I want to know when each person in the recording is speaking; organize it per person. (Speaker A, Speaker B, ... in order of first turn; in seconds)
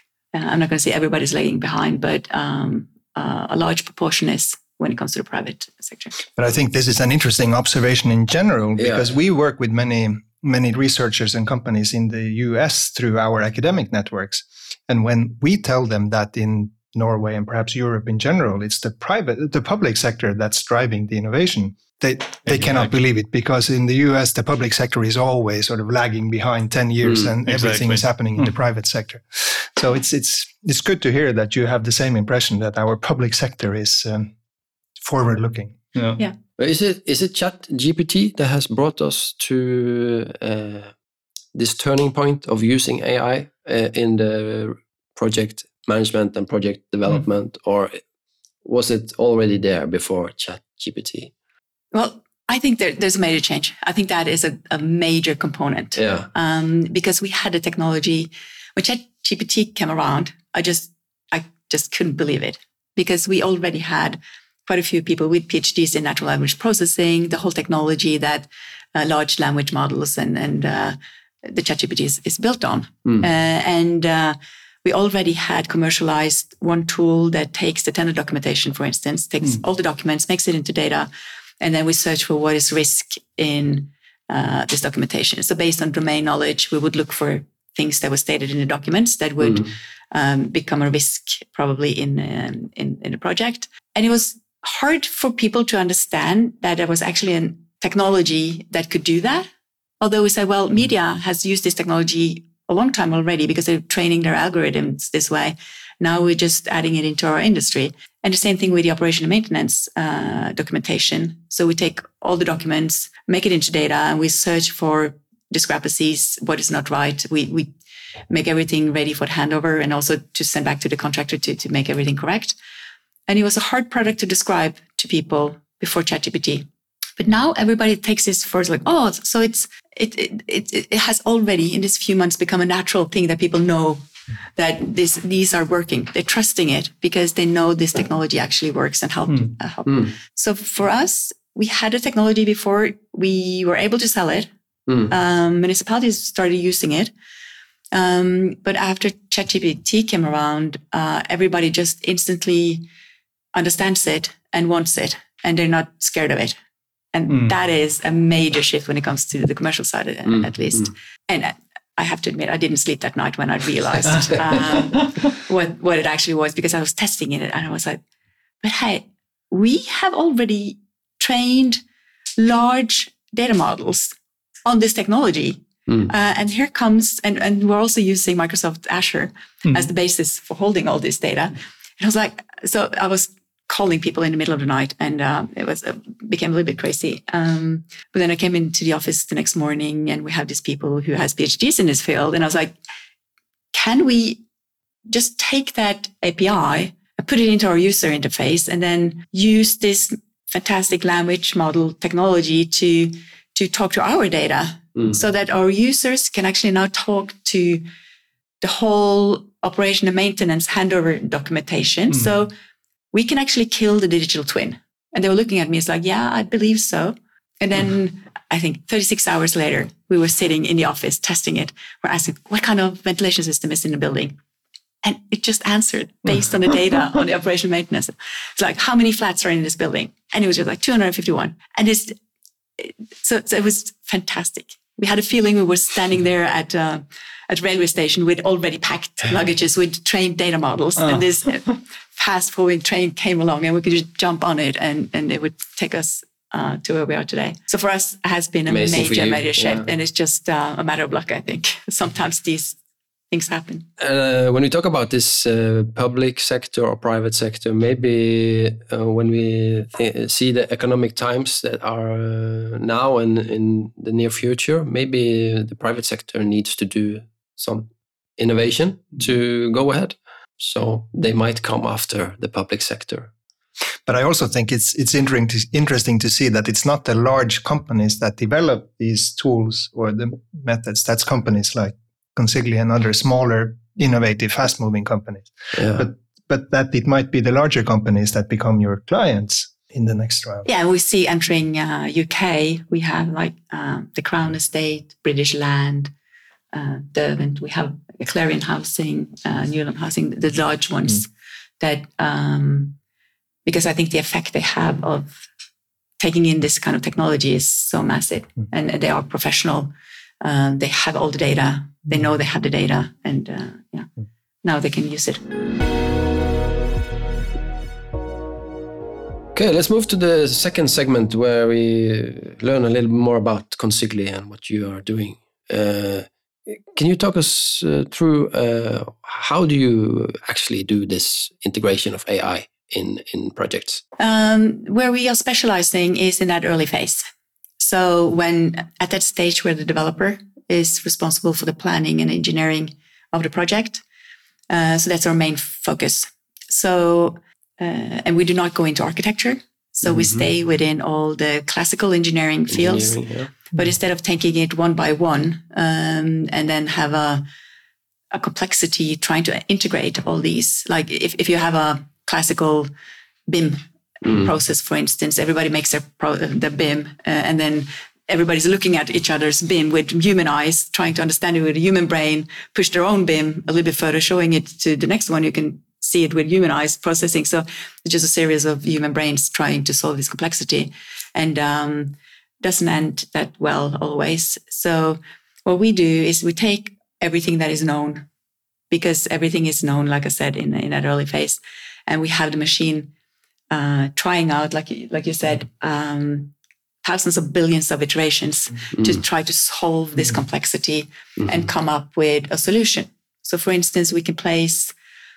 Speaker A: 0.3-6.2, 51.9-81.1, 81.6-99.5, 100.0-117.7, 118.3-122.6, 123.3-134.0, 134.6-144.5, 145.1-147.1, 147.9-152.9, 153.5-156.5, 157.1-168.0, 168.6-171.8, 172.4-192.8, 193.7-194.4, 195.1-207.8, 208.6-212.5, 213.1-224.3, 225.0-232.2, 232.8-252.8, 253.3-253.9, 290.6-296.1, 296.7-303.0, 303.6-305.5, 306.2-314.1, 314.6-315.4, 334.2-337.2, 337.8-344.0, 344.7-357.4, 358.3-362.9, 363.5-388.3, 388.9-393.1, 393.7-404.9
Speaker B: 6.4-34.3, 35.0-35.8, 274.1-290.6
Speaker C: 8.8-9.1, 36.6-40.9, 41.5-48.0, 48.6-51.3, 56.0-56.3, 160.3-160.8, 248.7-249.9, 254.0-273.3, 285.8-286.1, 319.5-334.0, 350.1-350.4, 352.7-353.5
Speaker D: 22.5-22.9, 27.4-28.5, 35.9-36.2, 164.3-165.1